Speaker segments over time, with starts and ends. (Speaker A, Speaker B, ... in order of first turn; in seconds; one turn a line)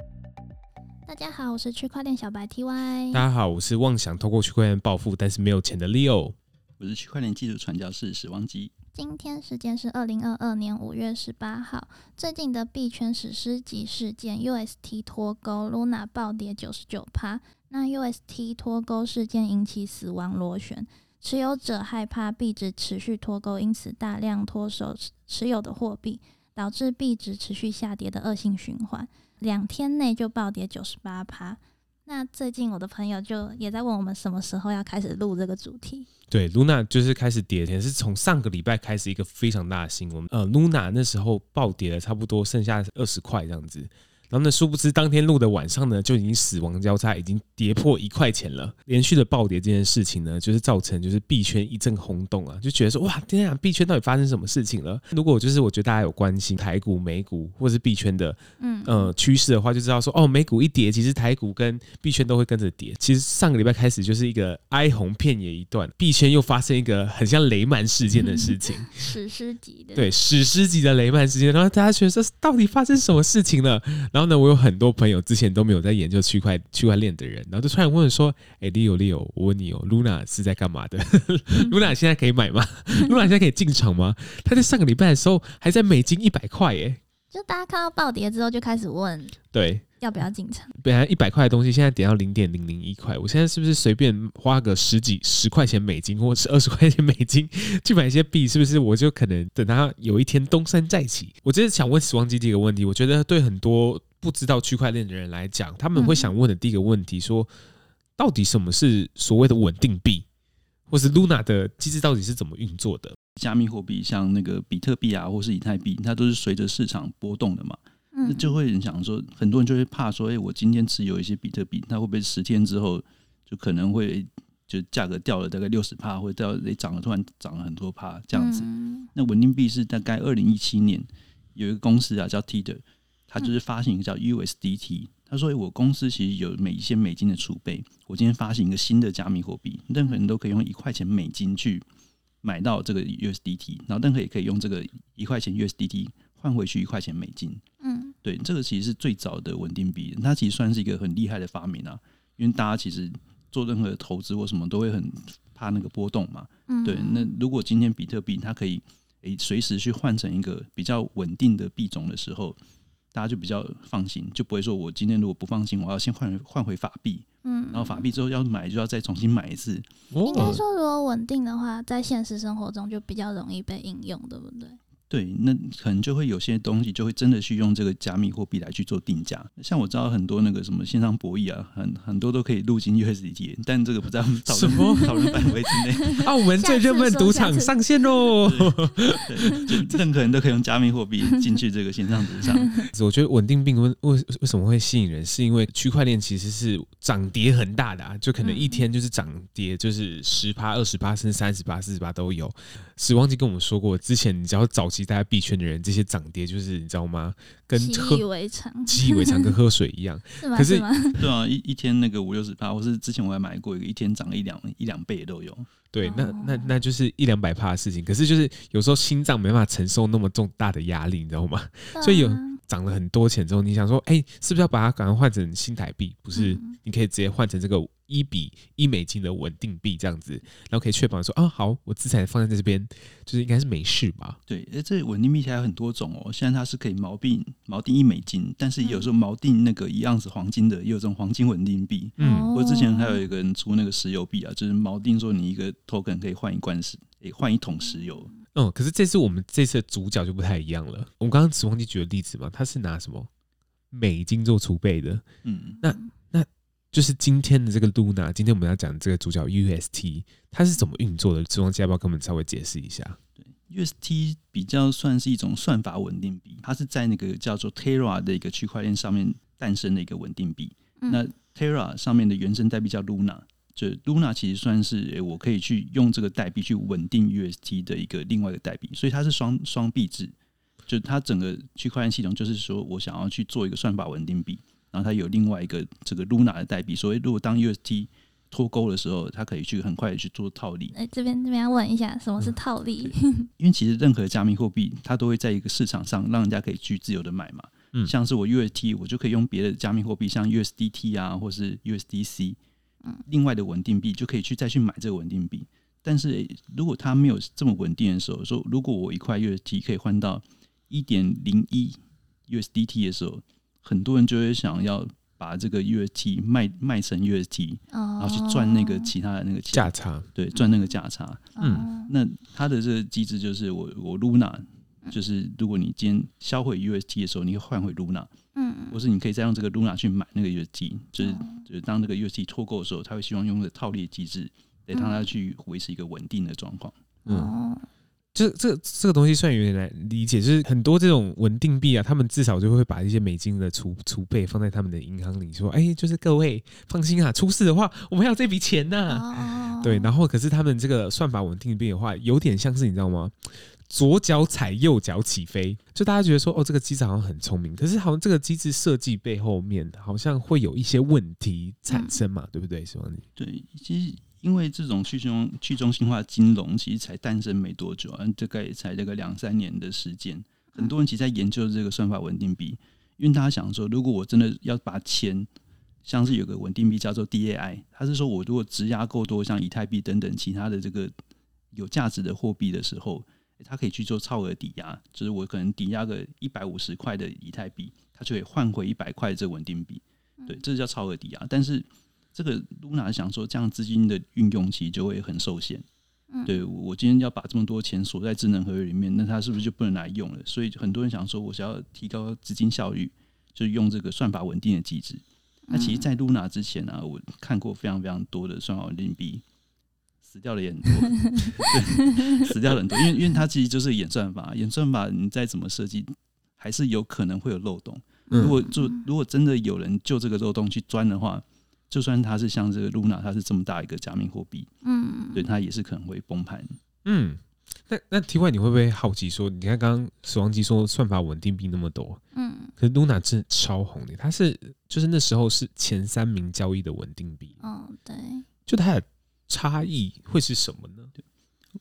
Speaker A: 1.1-3.2
Speaker B: 3.1-6.3
Speaker C: 6.8-8.7
Speaker A: 8.9-36.1
Speaker B: 36.3-69.1
Speaker A: 58.6-59.1
Speaker A: 68.2-70.1
Speaker B: 70.0-87.0
Speaker A: 87.3-89.4
Speaker B: 89.5-89.8
Speaker A: 90.0-90.7
Speaker B: 90.8-107.5
Speaker A: 106.0-106.3
Speaker B: 108.2-110.3
Speaker B: 110.9-113.2
Speaker C: 113.4-141.8
Speaker A: 118.1-118.6
Speaker A: 128.3-129.1
Speaker C: 142.4-147.6
Speaker A: 147.8-148.2
Speaker C: 148.2-162.6
Speaker A: 156.7-157.3
Speaker C: 163.1-170.5
Speaker A: 167.4-168.1
Speaker B: 170.1-170.6
Speaker A: 170.3-174.8
Speaker C: 175.1-186.3
Speaker B: 184.5-185.4
Speaker A: 184.9-185.4
Speaker A: 186.0-188.4
Speaker B: 186.1-189.7
Speaker C: 188.4-192.7
Speaker B: 192.9-208.2
Speaker A: 198.4-198.8
Speaker A: 207.7-209.6
Speaker B: 208.9-210.9
Speaker A: 210.4-211.3
Speaker C: 211.2-215.7
Speaker B: 215.9-234.4
Speaker A: 216.0-216.7
Speaker A: 221.9-222.6
Speaker A: 226.3-226.8
Speaker C: 234.5-248.3
Speaker A: 238.8-239.1
Speaker B: 242.2-242.5
Speaker A: 242.2-243.3
Speaker B: 248.6-253.3
Speaker B: 253.9-255.2
Speaker C: 255.4-255.8
Speaker B: 255.8-263.2
Speaker C: 263.4-280.3
Speaker A: 271.0-271.2
Speaker C: 280.9-290.9
Speaker A: 290.9-293.5
Speaker C: 293.0-302.6
Speaker C: 303.3-328.3
Speaker A: 317.9-319.1
Speaker B: 319.7-320.3
Speaker A: 320.6-320.9
Speaker A: 321.6-322.1
Speaker B: 321.6-321.9
Speaker A: 328.5-329.0
Speaker C: 328.9-337.0
Speaker A: 331.2-331.6
Speaker A: 334.9-335.2
Speaker A: 337.2-337.9
Speaker B: 337.3-337.5
Speaker B: 338.4-363.2
Speaker A: 349.1-350.1
Speaker A: 361.9-362.2
Speaker C: 363.4-375.5
Speaker C: 376.0-381.1
Speaker C: 381.7-395.9
Speaker A: 396.3-396.6
Speaker C: 396.5-409.4
Speaker A: 405.7-406.1
Speaker C: 410.2-424.7
Speaker A: 411.2-412.4
Speaker B: 418.3-418.6
Speaker A: 418.3-419.1
Speaker A: 424.8-425.4
Speaker C: 425.3-426.7
Speaker B: 427.1-432.2
Speaker A: 432.3-432.7
Speaker B: 432.8-437.5
Speaker A: 437.6-438.4
Speaker B: 438.7-441.1